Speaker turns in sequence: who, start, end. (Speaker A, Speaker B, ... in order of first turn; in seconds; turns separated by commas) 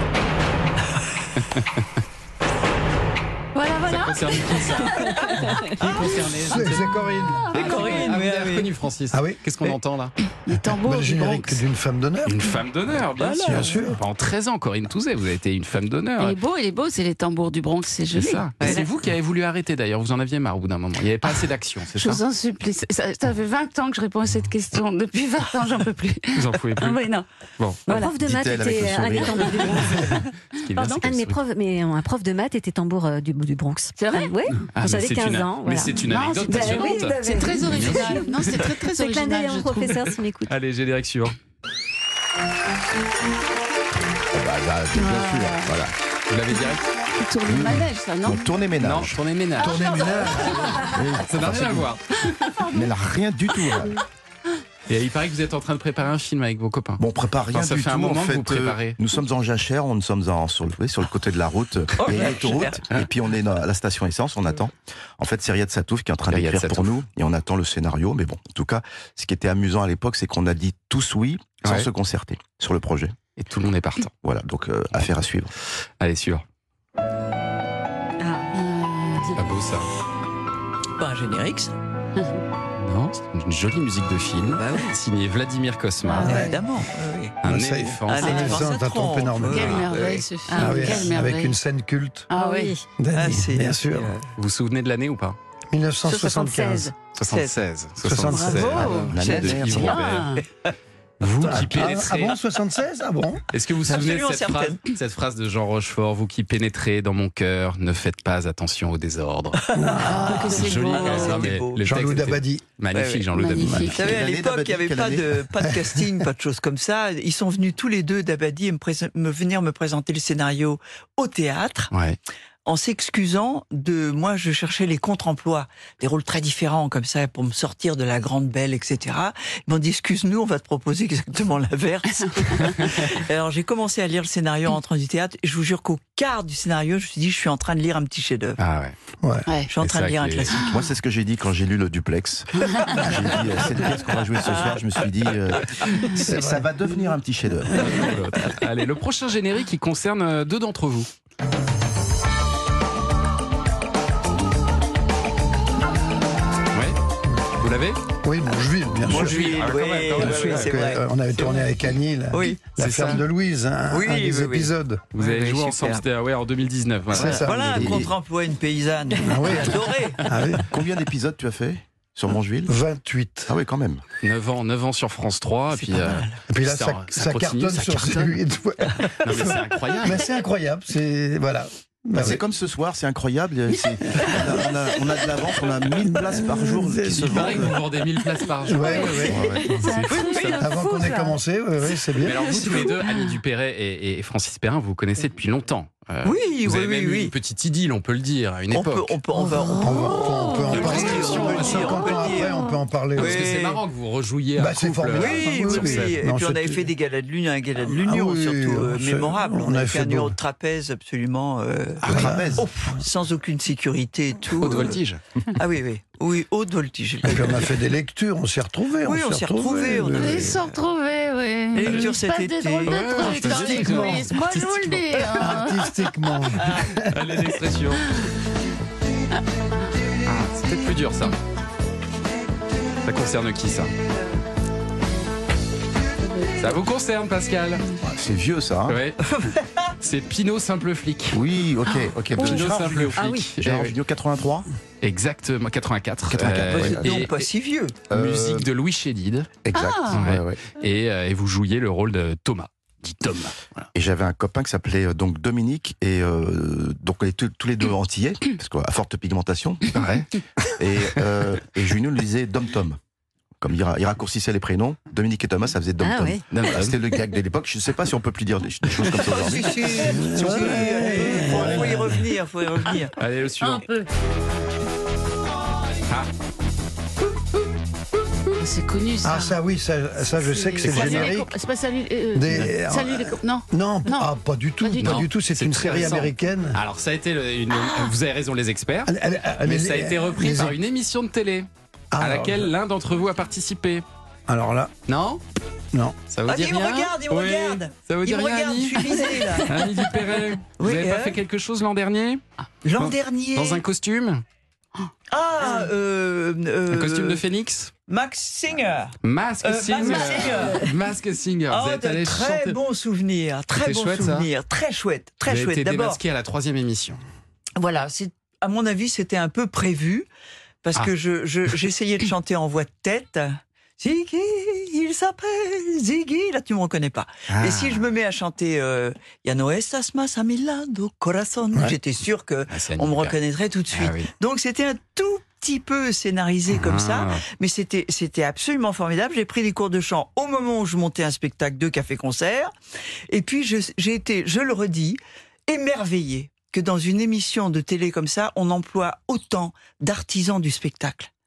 Speaker A: 1.4-1.8, Speaker B: 3.5-5.7, Speaker A: 3.9-10.1, Speaker C: 6.5-7.5, Speaker B: 7.5-8.1, Speaker D: 7.5-8.7, Speaker C: 9.1-9.4, Speaker B: 10.4-11.6, Speaker C: 10.7-12.6, Speaker A: 12.2-16.4, Speaker D: 13.2-13.7, Speaker C: 13.4-14.0, Speaker B: 16.2-18.5, Speaker A: 18.1-22.2, Speaker D: 18.6-18.9, Speaker B: 21.9-27.3, Speaker A: 26.3-27.0, Speaker A: 27.6-27.9, Speaker E: 27.9-40.5, Speaker F: 28.0-30.1, Speaker A: 30.6-31.4, Speaker B: 34.0-34.7, Speaker A: 34.7-38.7, Speaker B: 36.0-40.0, Speaker A: 40.5-41.4, Speaker F: 44.3-45.9, Speaker B: 44.9-45.7, Speaker A: 46.3-46.8, Speaker B: 46.6-48.6, Speaker F: 47.4-49.2, Speaker A: 48.8-49.8, Speaker C: 49.6-50.8, Speaker B: 49.6-50.9, Speaker A: 50.7-52.5, Speaker F: 50.8-52.0, Speaker B: 52.4-52.8, Speaker F: 52.7-54.0, Speaker A: 54.9-59.0, Speaker F: 57.0-73.2, Speaker D: 62.0-63.0, Speaker A: 66.3-67.0, Speaker A: 71.6-71.9, Speaker A: 73.4-74.1, Speaker F: 74.2-75.5, Speaker A: 76.0-76.4, Speaker B: 78.5-79.4, Speaker A: 79.3-79.9, Speaker D: 81.0-81.7, Speaker B: 82.2-82.4, Speaker A: 82.8-86.5, Speaker D: 84.5-85.0, Speaker B: 86.0-86.5, Speaker D: 86.2-87.4, Speaker C: 86.2-86.6, Speaker A: 87.4-88.7, Speaker C: 87.4-92.3, Speaker D: 88.1-91.1, Speaker B: 89.5-91.6, Speaker E: 90.5-90.8, Speaker B: 92.3-92.8, Speaker E: 92.3-92.9, Speaker C: 93.0-94.1, Speaker D: 93.1-94.2, Speaker A: 94.4-95.4, Speaker C: 95.7-96.9, Speaker D: 96.0-97.5, Speaker A: 97.1-100.4, Speaker C: 98.0-99.0, Speaker B: 98.5-99.2, Speaker F: 98.6-99.9, Speaker D: 99.2-100.7, Speaker B: 99.9-100.4, Speaker A: 101.2-102.4, Speaker C: 101.4-103.4, Speaker A: 103.5-114.1, Speaker D: 103.8-104.8, Speaker D: 109.7-111.8, Speaker C: 109.7-110.7, Speaker B: 110.0-111.4, Speaker C: 111.8-112.6, Speaker D: 112.9-113.3, Speaker B: 113.3-114.2, Speaker C: 113.5-114.0, Speaker D: 113.9-121.9, Speaker F: 114.0-115.5, Speaker C: 115.6-116.1, Speaker A: 121.9-122.2, Speaker D: 122.6-138.6, Speaker A: 132.5-133.0, Speaker A: 138.6-138.9, Speaker C: 139.2-139.5, Speaker B: 139.4-139.7, Speaker D: 139.7-140.8, Speaker A: 139.8-140.5, Speaker F: 140.6-147.9, Speaker D: 142.7-143.1, Speaker C: 146.2-146.7, Speaker A: 147.7-151.1, Speaker A: 157.6-158.0, Speaker C: 158.2-165.1, Speaker A: 159.1-160.8, Speaker D: 159.1-161.7, Speaker D: 162.3-163.2, Speaker A: 162.8-163.2, Speaker D: 163.9-166.1, Speaker A: 165.1-167.5, Speaker C: 167.1-168.1, Speaker F: 167.2-168.1, Speaker D: 167.2-170.3, Speaker C: 169.2-170.7, Speaker F: 170.7-172.8, Speaker C: 172.7-173.5, Speaker F: 173.5-174.0, Speaker A: 174.2-178.4, Speaker D: 175.7-176.4, Speaker C: 176.5-182.4, Speaker A: 179.2-180.3, Speaker F: 182.2-187.8, Speaker C: 186.0-187.8, Speaker A: 187.3-190.8, Speaker C: 188.6-192.9, Speaker B: 188.8-191.4, Speaker F: 189.3-189.6, Speaker D: 190.1-190.6, Speaker A: 192.2-199.2, Speaker D: 192.5-192.8, Speaker D: 196.2-197.3, Speaker D: 198.7-202.5, Speaker C: 199.8-203.5, Speaker B: 200.3-200.7, Speaker A: 200.6-202.3, Speaker A: 203.1-206.2, Speaker D: 203.2-203.8, Speaker C: 204.6-206.9, Speaker D: 205.1-215.0, Speaker C: 207.8-210.4, Speaker C: 212.0-213.0, Speaker F: 212.1-212.7, Speaker A: 214.6-215.2, Speaker D: 215.6-217.8, Speaker C: 217.2-220.6, Speaker D: 219.0-220.8, Speaker B: 220.2-226.0, Speaker D: 221.8-224.5, Speaker A: 221.8-222.1, Speaker A: 222.8-225.0, Speaker C: 223.4-224.7, Speaker C: 225.2-227.2, Speaker D: 226.6-226.8, Speaker A: 227.1-228.1, Speaker A: 230.2-231.4, Speaker A: 233.0-233.9, Speaker A: 236.6-237.9, Speaker F: 238.0-239.1, Speaker A: 238.9-239.2, Speaker D: 239.4-239.7, Speaker A: 240.0-241.4, Speaker F: 241.3-244.7, Speaker A: 242.3-243.9, Speaker D: 243.2-243.5, Speaker A: 245.0-247.5, Speaker F: 246.3-247.3, Speaker D: 246.7-248.0, Speaker F: 248.1-248.7, Speaker A: 248.1-249.5, Speaker F: 249.7-250.7, Speaker B: 249.7-250.2, Speaker A: 250.1-253.9, Speaker F: 253.9-260.1, Speaker A: 259.9-260.3, Speaker F: 260.7-263.0, Speaker F: 263.6-269.9, Speaker E: 266.0-266.4, Speaker A: 266.5-267.0, Speaker D: 269.1-273.1, Speaker C: 269.9-272.2, Speaker A: 273.2-273.9, Speaker B: 273.6-274.1, Speaker B: 278.6-279.6, Speaker C: 279.2-281.6, Speaker B: 280.3-285.2, Speaker A: 280.8-281.4, Speaker C: 282.3-286.8, Speaker A: 285.0-294.1, Speaker B: 287.7-288.1, Speaker C: 289.1-290.8, Speaker C: 292.1-292.8, Speaker C: 294.5-294.9, Speaker A: 295.1-295.4, Speaker A: 296.3-302.4, Speaker D: 296.5-299.7, Speaker D: 300.8-301.4, Speaker D: 302.9-303.8, Speaker A: 303.0-304.4, Speaker D: 305.3-307.4, Speaker A: 306.9-307.9, Speaker D: 308.1-310.9, Speaker A: 309.2-312.8, Speaker B: 310.2-310.7, Speaker D: 311.7-316.2, Speaker A: 313.8-314.5, Speaker A: 315.5-317.2, Speaker D: 317.8-320.3, Speaker D: 320.8-342.7, Speaker A: 327.5-328.1, Speaker A: 332.7-333.4, Speaker A: 333.9-334.3, Speaker A: 336.7-337.4, Speaker D: 343.3-351.3